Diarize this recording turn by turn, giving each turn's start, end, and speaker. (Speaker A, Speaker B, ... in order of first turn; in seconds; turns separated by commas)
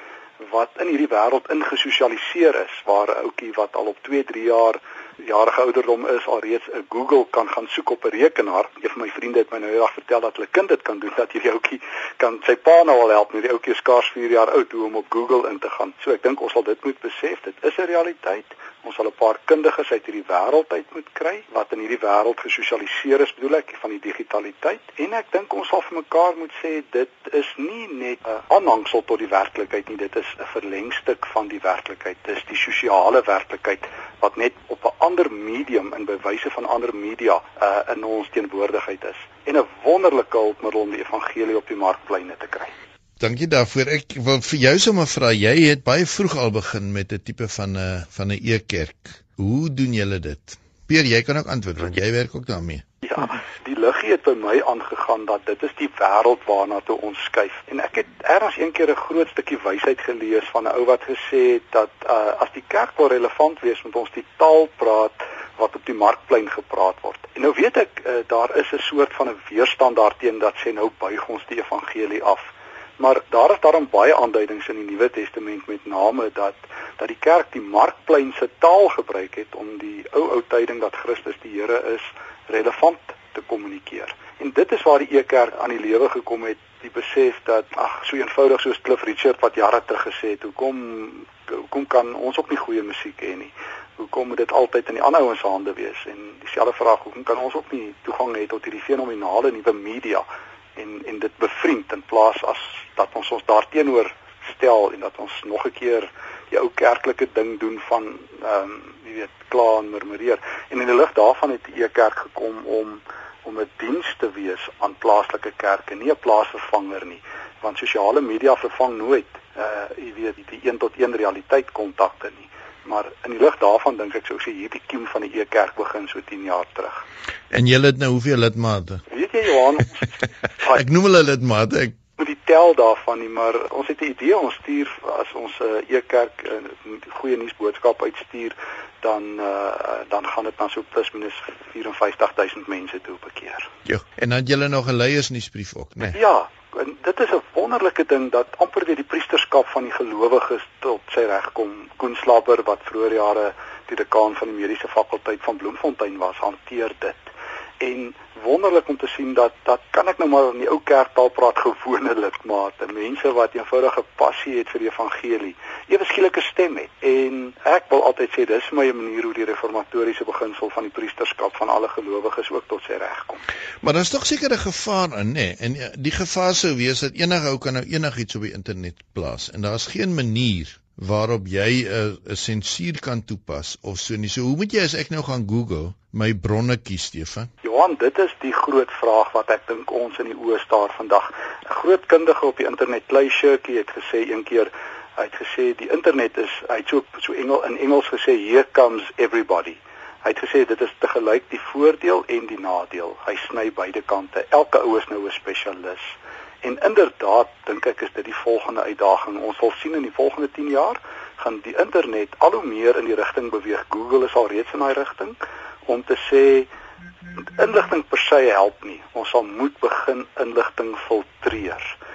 Speaker A: 0.4-42.7, Speaker B: 43.2-52.8, Speaker A: 53.0-100.2, Speaker A: 100.8-127.0, Speaker B: 127.5-129.0, Speaker A: 129.1-130.8, Speaker B: 130.7-132.0, Speaker A: 132.2-143.7, Speaker B: 143.8-146.2, Speaker A: 146.1-173.4, Speaker B: 173.8-187.5, Speaker A: 187.6-216.7, Speaker A: 217.4-221.9